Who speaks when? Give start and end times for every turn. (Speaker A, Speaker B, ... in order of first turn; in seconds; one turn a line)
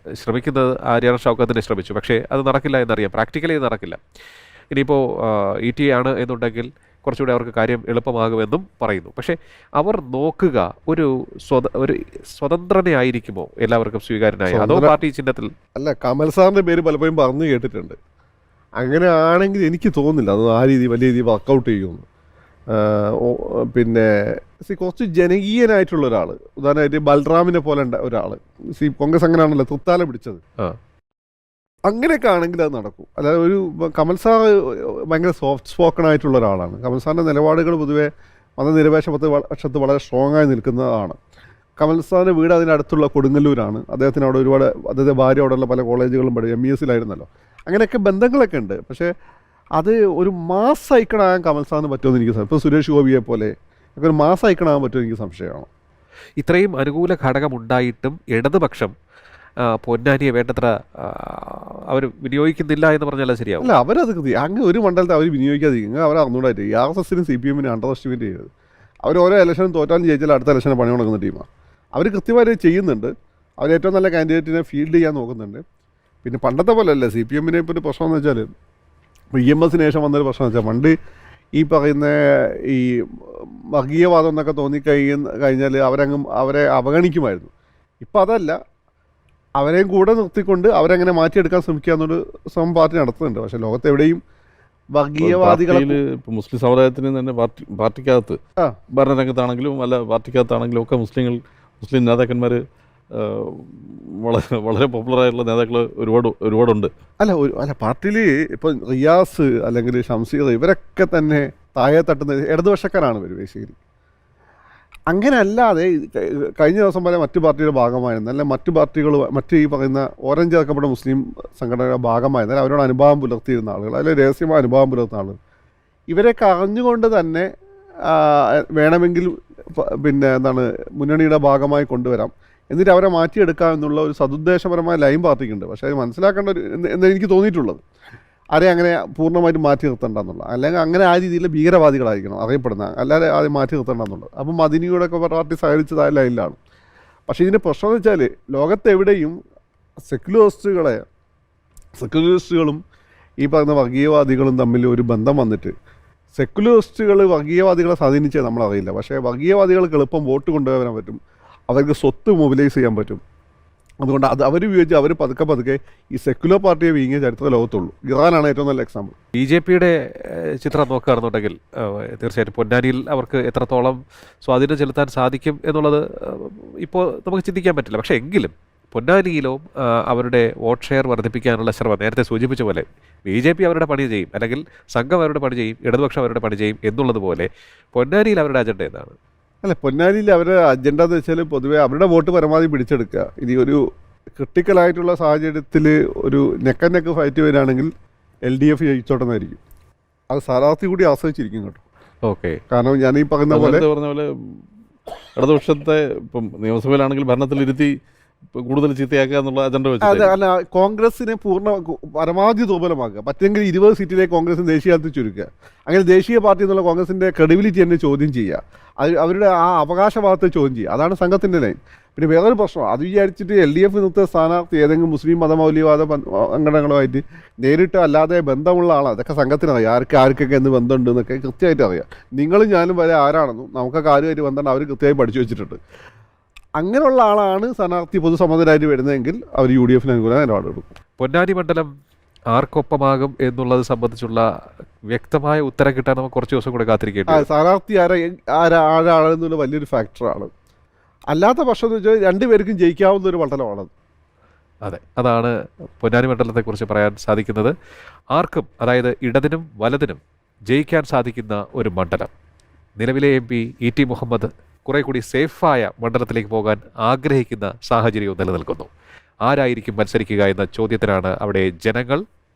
Speaker A: 0.2-4.0
Speaker A: 4.7-15.5
Speaker B: 14.5-14.9
Speaker B: 15.8-17.9
Speaker B: 18.8-22.0
Speaker B: 22.7-30.4
Speaker B: 31.9-41.2
Speaker B: 41.8-49.1
Speaker B: 49.8-55.7
Speaker A: 56.4-58.9
Speaker A: 59.8-63.7
Speaker B: 63.6-68.5
Speaker B: 69.0-75.6
Speaker B: 76.2-78.5
Speaker B: 79.3-80.9
Speaker B: 81.6-87.5
Speaker B: 88.0-88.6
Speaker B: 89.6-94.2
Speaker B: 94.9-96.0
Speaker C: 95.2-98.4
Speaker C: 98.9-102.6
Speaker C: 103.2-106.9
Speaker B: 107.2-113.8
Speaker B: 115.1-125.3
Speaker B: 126.1-127.5
Speaker B: 128.1-137.8
Speaker B: 138.5-146.6
Speaker B: 147.3-149.3
Speaker B: 150.1-151.0
Speaker B: 152.0-152.8
Speaker B: 153.4-155.7
Speaker B: 156.4-163.2
Speaker B: 164.0-169.1
Speaker A: 169.3-189.2
Speaker B: 189.6-193.8
Speaker B: 194.3-197.9
Speaker B: 198.5-199.6
Speaker B: 200.3-201.8
Speaker A: 202.2-202.6
Speaker B: 202.7-203.8
Speaker C: 203.5-204.3
Speaker C: 205.3-207.9
Speaker C: 208.5-210.3
Speaker B: 210.0-235.8
Speaker B: 236.8-240.9
Speaker A: 241.2-241.9
Speaker A: 242.5-244.4
Speaker A: 245.1-247.5
Speaker B: 247.3-250.5
Speaker B: 251.3-253.9
Speaker A: 254.8-257.7
Speaker A: 258.3-260.2
Speaker A: 260.7-262.3
Speaker A: 263.0-268.9
Speaker A: 269.4-272.2